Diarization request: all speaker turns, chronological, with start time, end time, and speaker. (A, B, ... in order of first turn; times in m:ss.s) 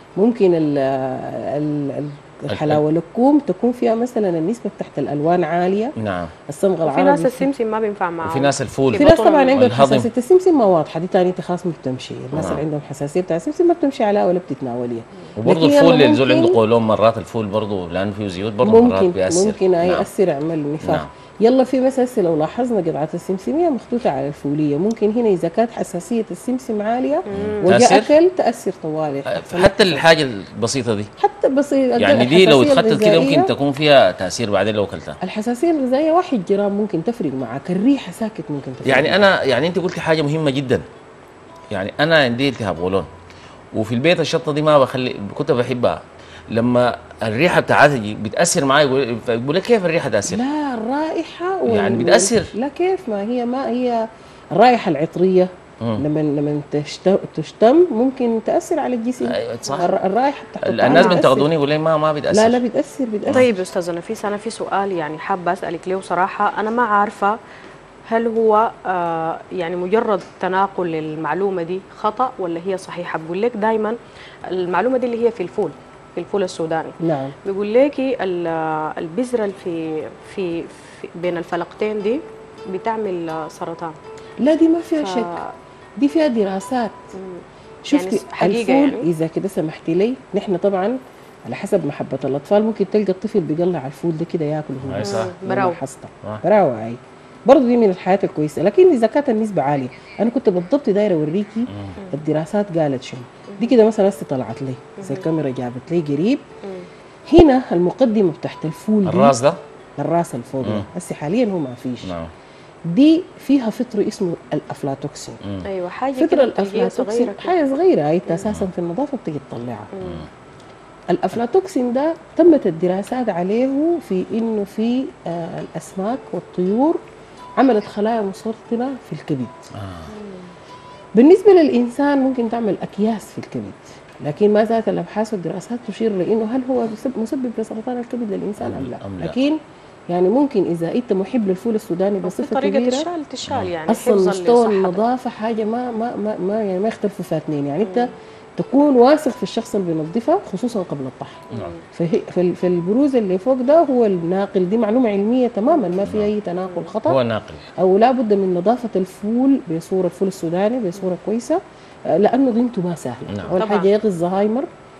0:00.2-0:06.0 A
0:02.5-0:02.8 B
0:06.0-0:06.3 B
0:06.5-0:07.5 A
0:06.8-0:09.7 C
0:08.2-0:10.1 B
0:09.0-0:16.6 A
0:12.3-0:12.6 B
0:15.4-0:20.1 B
0:18.6-0:30.1 A
0:20.8-0:21.1 B
0:27.3-0:27.7 C
0:27.3-0:28.1 B
0:29.3-0:31.1 B
0:31.2-0:33.5 A
0:32.0-0:35.2 B
0:35.2-0:39.3 A
0:38.8-0:40.8 B
0:41.7-0:43.1 B
0:43.7-0:50.4 B
0:50.3-1:01.5 A
0:51.7-0:52.5 B
0:59.2-0:59.9 B
1:00.6-1:02.6 B
1:00.9-1:01.2 C
1:02.3-1:03.5 A
1:03.3-1:07.4 C
1:08.1-1:14.0 C
1:14.5-1:24.0 C
1:17.0-1:17.3 A
1:24.4-1:25.4 A
1:25.0-1:25.5 C
1:26.0-1:27.0 A
1:27.2-1:29.1 C
1:27.9-1:31.0 A
1:31.5-1:46.4 A
1:34.8-1:35.3 B
1:35.0-1:35.8 C
1:45.0-1:45.2 C
1:47.3-1:49.4 A
1:49.0-1:49.6 B
1:50.0-1:52.1 A
1:50.6-1:50.9 B
1:52.0-1:52.3 B
1:52.9-1:55.4 A
1:55.6-1:57.6 C
1:56.2-1:59.9 A
1:59.9-2:00.3 C
2:01.1-2:07.0 A
2:07.6-2:09.7 A
2:09.8-2:10.1 B
2:10.1-2:10.5 C
2:11.2-2:19.6 A
2:18.6-2:19.4 B
2:20.1-2:23.1 A
2:22.2-2:25.0 C
2:23.5-2:23.7 B
2:23.9-2:37.2 A
2:27.8-2:28.1 C
2:31.5-2:31.8 C
2:35.7-2:36.1 C
2:36.0-2:36.3 B
2:36.6-2:36.9 C
2:37.1-2:37.7 B
2:37.8-2:44.7 A
2:43.3-2:43.6 B
2:43.5-2:43.9 C